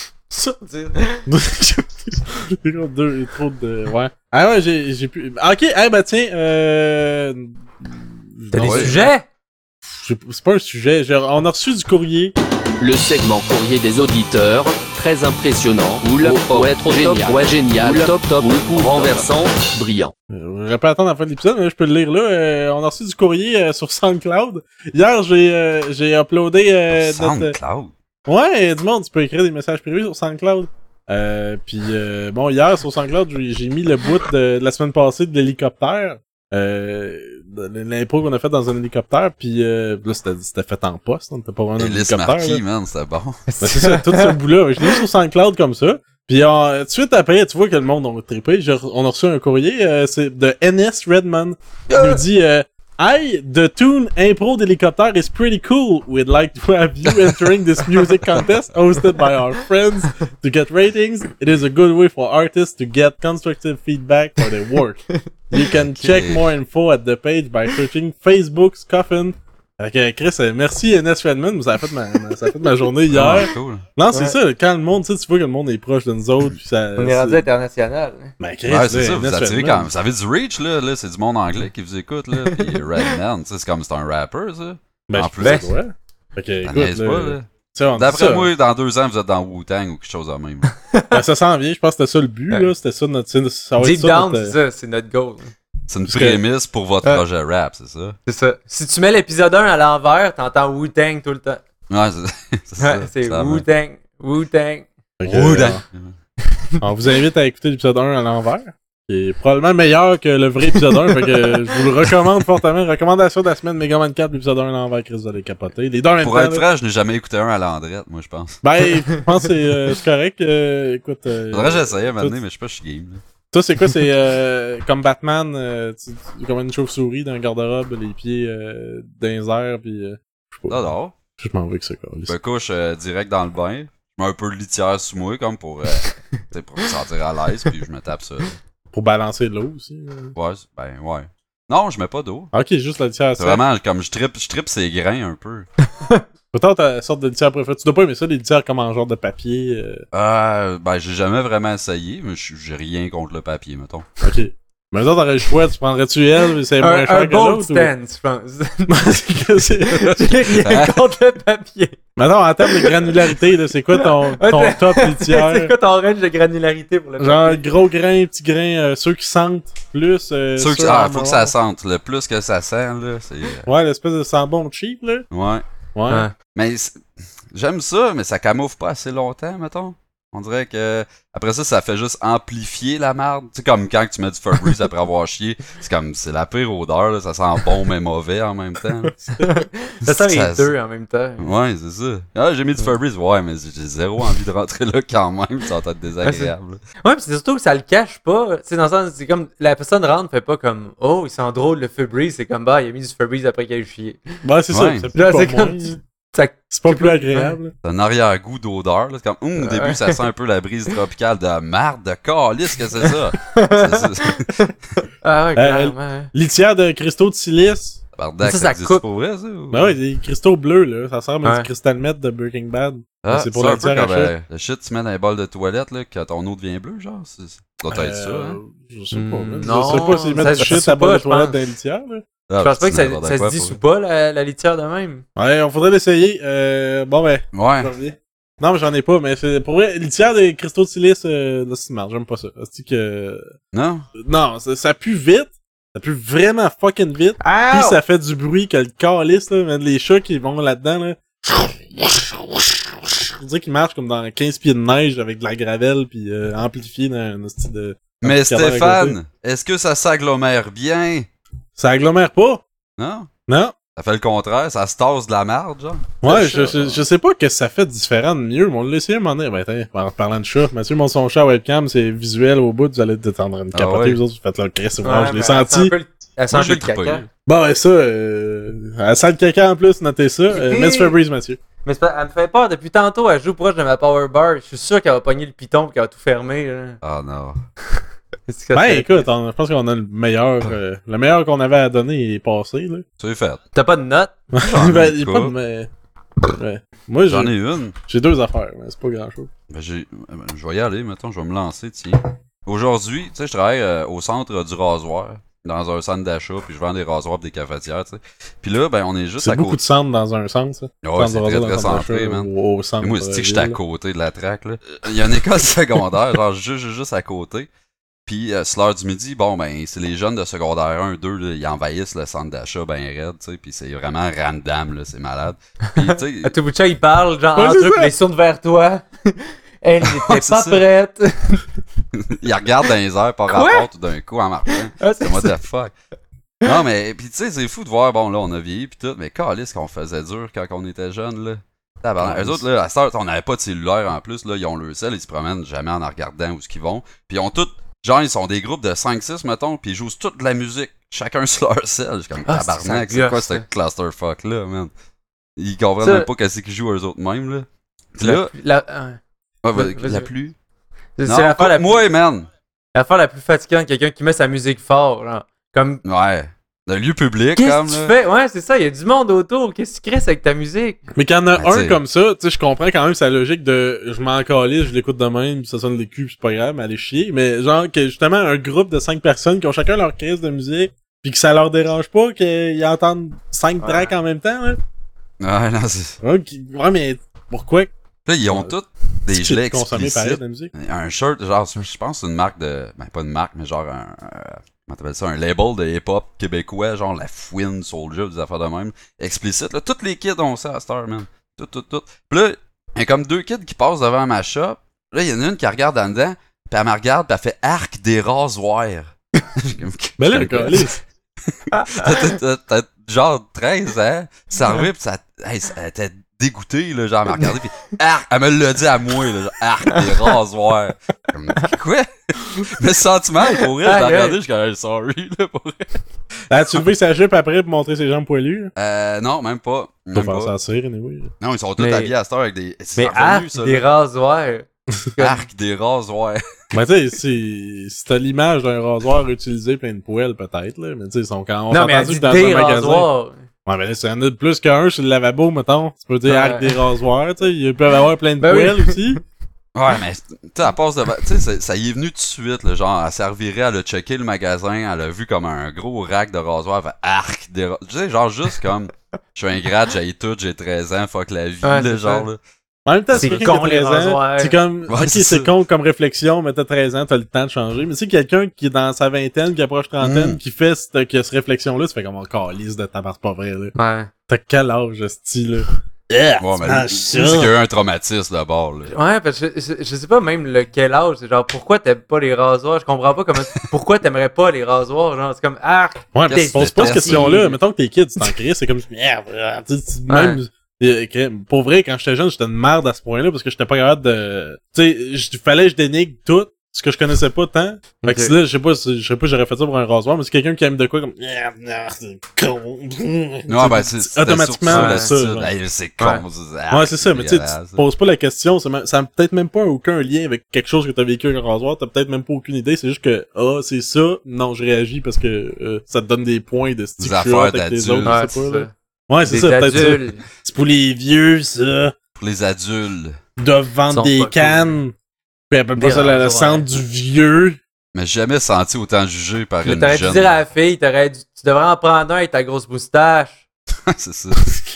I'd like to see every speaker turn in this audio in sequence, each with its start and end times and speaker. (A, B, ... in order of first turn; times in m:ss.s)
0:00.3-0:01.3 A
0:01.3-0:09.1 B
0:08.5-0:09.2 A
0:08.6-0:08.9 C
0:09.8-0:12.4 B
0:12.8-0:20.1 D
0:20.3-0:27.6 B
0:27.0-0:27.9 C
0:28.2-0:42.6 B
0:41.8-0:43.4 C
0:43.5-0:45.0 A
0:43.6-1:17.5 B
1:05.9-1:06.4 C
1:13.1-1:13.8 C
1:17.0-1:18.3 A
1:18.4-1:19.9 B
1:18.7-1:25.7 C
1:22.5-1:23.1 A
1:25.1-1:28.5 B
1:25.4-1:25.7 A
1:26.6-1:30.7 C
1:30.8-1:31.2 A
1:31.1-1:34.5 B
1:33.8-1:35.5 A
1:35.9-1:38.2 C
1:36.0-1:36.4 B
1:38.2-1:41.6 A
1:41.9-1:43.6 C
1:42.8-1:44.9 A
1:45.2-1:45.8 B
1:45.2-1:46.1 C
1:46.8-1:56.6 B
1:56.2-1:58.6 C
1:58.6-2:02.4 B
2:01.5-2:03.2 C
2:03.5-2:10.8 B
2:10.7-2:11.1 C
2:11.4-2:12.4 B
2:12.3-2:18.6 C
2:18.9-2:20.3 B
2:20.3-2:22.5 C
2:22.5-2:23.6 B
2:23.4-2:25.6 C
2:26.0-2:26.2 A
2:26.5-2:30.0 B
2:30.1-2:34.0 C
2:34.2-2:37.9 B
2:36.8-2:39.1 A
2:38.9-2:40.2 B
2:39.8-2:42.0 A
2:40.0-2:41.0 C
2:42.2-2:45.7 B
2:42.6-2:43.2 A
2:44.0-2:47.7 A
2:47.2-2:51.5 B
2:50.6-2:53.7 C
2:53.6-2:55.2 B
2:55.3-2:55.6 C
2:55.9-2:56.3 B
2:56.4-3:09.4 C
3:09.3-3:11.5 A
3:10.0-3:10.7 C
3:11.4-3:16.8 C
3:16.2-3:24.3 A
3:24.4-3:26.0 B
3:24.7-3:25.1 C
3:25.1-3:27.6 A
3:26.7-3:27.7 B
3:27.8-3:34.5 C
3:29.6-3:30.2 A
3:33.0-3:36.3 A
3:35.6-3:38.0 B
3:38.2-3:40.0 C
3:38.4-3:39.0 A
3:39.7-3:44.3 B
3:41.4-3:41.7 A
3:43.2-3:48.6 C
3:47.9-3:52.2 B
3:49.1-3:51.6 A
3:52.5-3:53.8 C
3:52.6-3:55.2 A
3:55.4-4:03.5 B
3:57.5-3:57.9 C
4:03.7-4:04.0 C
4:04.2-4:19.2 B
4:07.4-4:08.0 A
4:18.2-4:21.3 C
4:21.8-4:22.6 B
4:23.0-4:23.3 C
4:23.5-4:23.7 B
4:24.0-4:26.2 C
4:26.2-4:35.9 B
4:26.2-4:27.0 A
4:33.7-4:34.2 C
4:35.0-4:37.2 A
4:36.5-4:37.2 C
4:37.4-4:41.6 B
4:40.5-4:41.1 A
4:41.8-4:47.0 A
4:47.0-4:47.6 C
4:48.5-4:49.3 A
4:48.7-4:53.0 B
4:53.2-4:53.6 C
4:53.7-4:54.3 A
4:54.5-4:55.9 B
4:54.6-4:55.5 C
4:56.5-4:57.5 B
4:57.3-4:57.9 C
4:58.1-4:59.5 B
4:59.7-5:09.8 C
5:09.4-5:13.8 B
5:11.0-5:12.5 C
5:13.0-5:17.7 C
5:18.2-5:26.5 C
5:25.9-5:31.7 A
5:27.6-5:28.1 B
5:30.0-5:30.8 C
5:32.2-5:35.9 C
5:33.5-5:33.8 A
5:35.0-5:35.5 A
5:36.6-5:54.9 C
5:42.2-5:42.6 B
5:52.4-5:53.6 A
5:55.6-5:58.5 C
5:56.0-5:56.3 A
5:58.2-5:59.2 A
5:59.6-6:00.5 C
5:59.7-6:00.3 A
6:01.2-6:02.0 A
6:01.2-6:02.5 C
6:02.9-6:06.0 A
6:06.0-6:08.1 C
6:07.6-6:11.0 A
6:11.1-6:24.8 B
6:11.6-6:12.0 C
6:25.4-6:26.2 C
6:26.2-6:27.9 B
6:28.3-6:50.9 C
6:28.4-6:28.7 B
6:29.3-6:30.7 B
6:50.2-6:51.0 B
6:51.7-7:06.0 C
6:51.7-6:52.1 A
6:59.9-7:00.3 A
7:03.8-7:04.4 A
7:06.5-7:08.7 B
7:08.8-7:10.5 C
7:10.1-7:11.3 B
7:11.4-7:13.8 C
7:11.8-7:12.1 A
7:13.0-7:15.4 A
7:15.2-7:16.4 C
7:16.7-7:23.1 B
7:21.7-7:23.4 A
7:23.6-7:29.2 B
7:26.2-7:26.8 A
7:28.4-7:29.2 A
7:29.7-7:42.4 C
7:41.6-7:42.2 A
7:42.8-7:53.7 B
7:43.1-7:43.5 C
7:43.2-7:44.6 A
7:44.9-7:45.5 C
7:50.0-7:50.4 C
7:53.7-7:54.1 A
7:54.3-7:57.5 B
7:56.4-7:58.9 C
7:58.9-8:07.6 A
8:06.1-8:25.5 B
8:06.3-8:07.4 C
8:10.1-8:10.4 A
8:18.0-8:18.3 A
8:23.5-8:27.8 C
8:24.7-8:25.1 A
8:26.7-8:41.9 B
8:37.0-8:38.2 C
8:38.0-8:38.7 A
8:39.2-8:40.2 A
8:42.2-8:43.2 C
8:43.4-8:44.9 B
8:43.9-8:44.7 A
8:45.5-8:47.6 B
8:45.8-8:46.8 A
8:47.9-8:50.4 C
8:49.6-8:53.4 A
8:53.9-8:54.6 C